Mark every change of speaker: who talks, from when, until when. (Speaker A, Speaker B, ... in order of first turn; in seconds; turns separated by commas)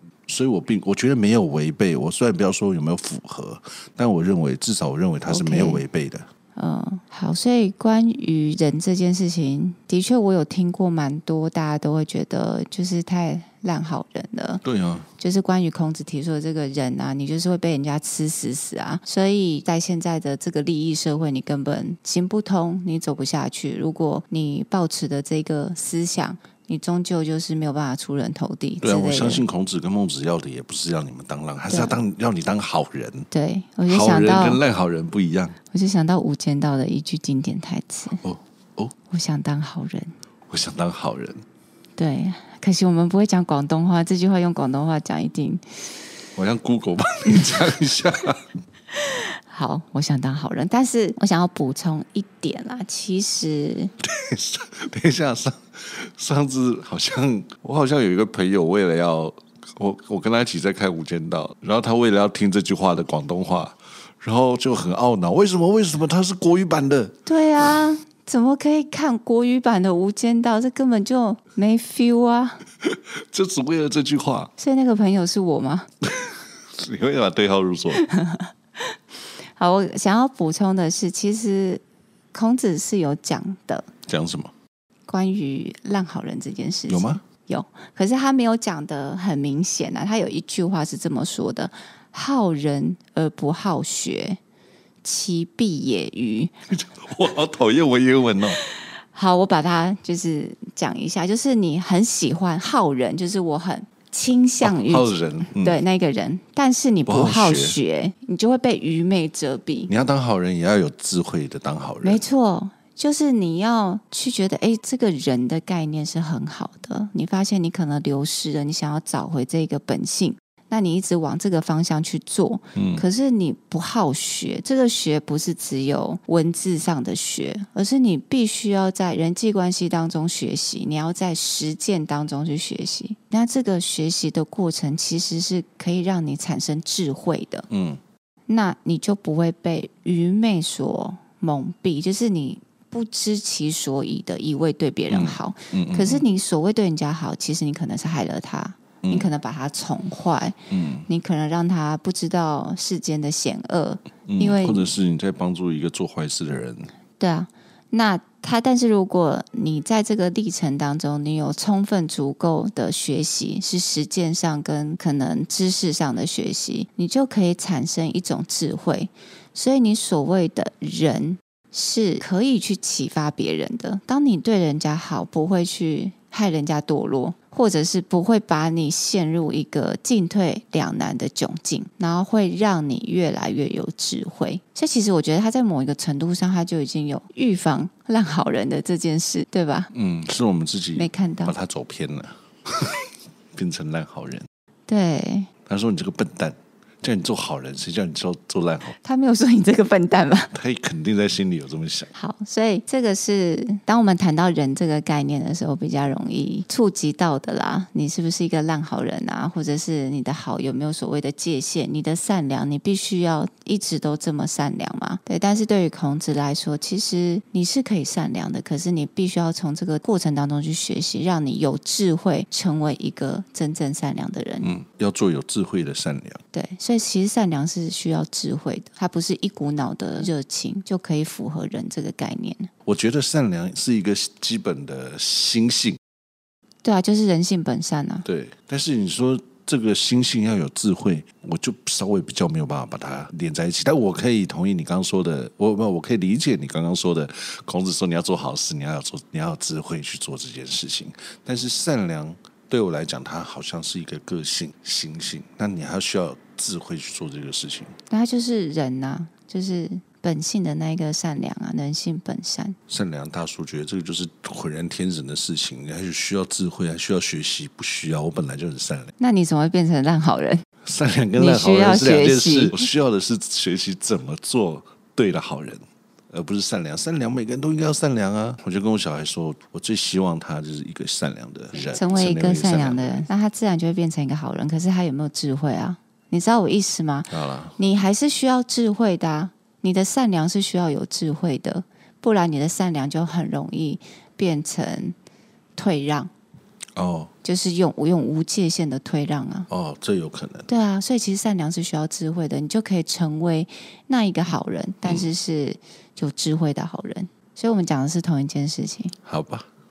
Speaker A: 0.3-6.3, Speaker B: 5.3-5.8, Speaker B: 6.5-14.6, Speaker A: 14.6-15.1, Speaker B: 15.2-29.5, Speaker A: 28.8-33.3, Speaker B: 31.7-32.0, Speaker B: 33.3-34.6, Speaker A: 33.9-35.6, Speaker B: 35.7-38.2, Speaker A: 38.2-38.9, Speaker B: 39.1-40.1, Speaker A: 40.5-41.4, Speaker B: 42.0-45.6, Speaker A: 46.4-48.4, Speaker B: 49.0-53.9, Speaker A: 54.0-67.8, Speaker B: 67.2-72.6, Speaker A: 72.8-74.5, Speaker B: 74.6-75.9, Speaker A: 76.0-78.0, Speaker B: 78.0-78.5, Speaker B: 79.5-81.8, Speaker B: 82.3-83.9, Speaker A: 84.1-84.5, Speaker B: 85.1-94.4, Speaker A: 86.9-87.2, Speaker B: 95.0-96.5, Speaker A: 96.7-98.6, Speaker B: 99.1-109.9, Speaker A: 104.6-105.8, Speaker A: 107.0-107.8, Speaker A: 109.9-112.2, Speaker B: 112.0-137.7, Speaker A: 122.7-123.0, Speaker A: 137.7-138.0, Speaker B: 138.5-150.5, Speaker A: 145.1-146.2, Speaker A: 149.0-149.3, Speaker A: 150.7-151.1, Speaker B: 151.1-154.9, Speaker A: 154.3-156.9, Speaker B: 157.2-189.9, Speaker A: 189.9-194.5, Speaker B: 190.9-191.5, Speaker B: 194.9-195.5, Speaker A: 195.7-199.0, Speaker B: 199.0-200.5, Speaker A: 200.5-202.1, Speaker B: 202.1-224.7, Speaker A: 224.6-226.4, Speaker B: 226.5-232.7, Speaker A: 232.8-236.0, Speaker B: 236.8-238.2, Speaker A: 238.2-257.9, Speaker B: 258.1-262.8, Speaker A: 262.9-269.1, Speaker B: 269.2-270.6, Speaker A: 270.8-283.3, Speaker B: 271.4-272.9, Speaker B: 281.9-295.1, Speaker A: 287.3-287.7, Speaker B: 295.8-296.3, Speaker A: 296.9-297.3, Speaker B: 297.4-299.7, Speaker A: 299.7-300.7, Speaker B: 300.7-309.1, Speaker A: 309.2-309.6